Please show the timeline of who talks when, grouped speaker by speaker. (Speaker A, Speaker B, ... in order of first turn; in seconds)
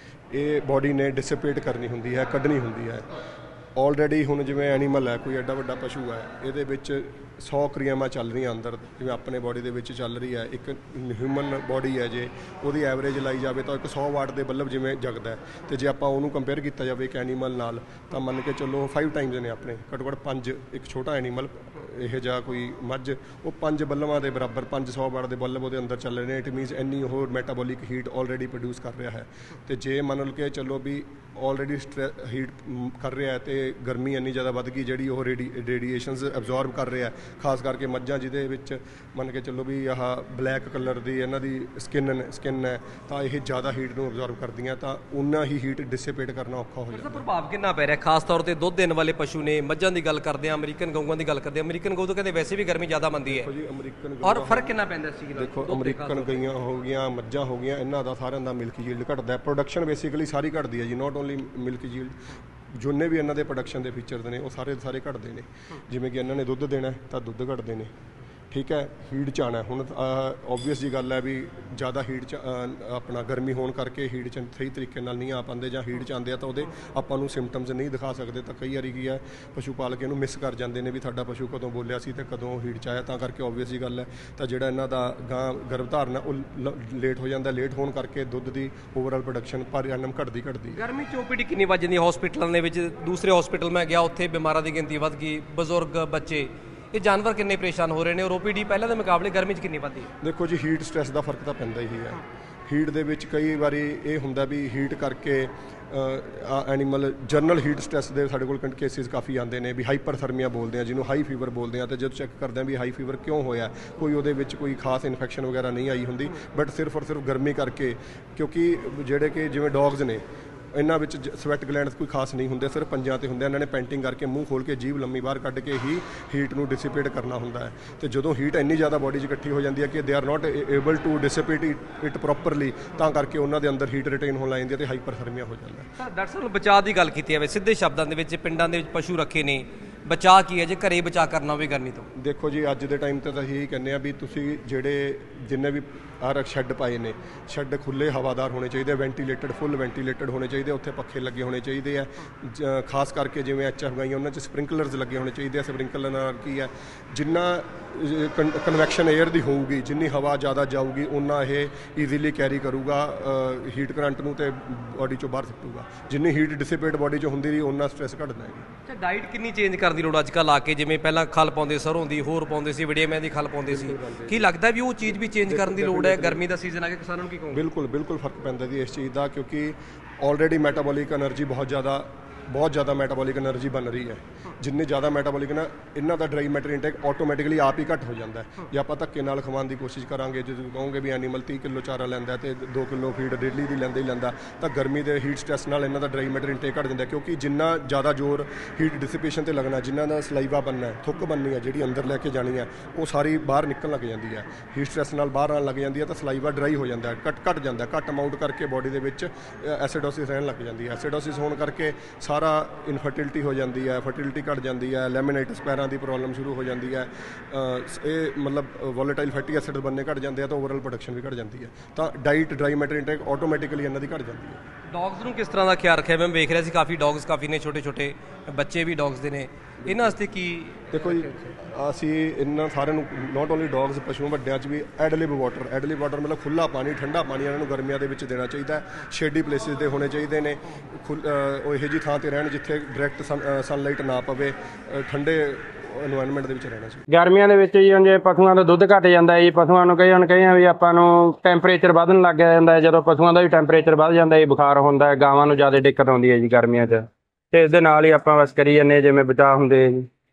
Speaker A: 0.3-3.1, 3.8-47.2, 53.2-54.8, 55.3-67.9, 68.5-90.8, 100.2-135.9, 142.2-168.7, 173.7-174.5, 175.4-176.4, 177.5-224.6, 230.9-247.0
Speaker B: 46.9-53.5, 54.2-56.4, 90.8-100.1, 136.0-142.1, 168.9-177.6, 224.9-231.5
Speaker C: 247.1-260.1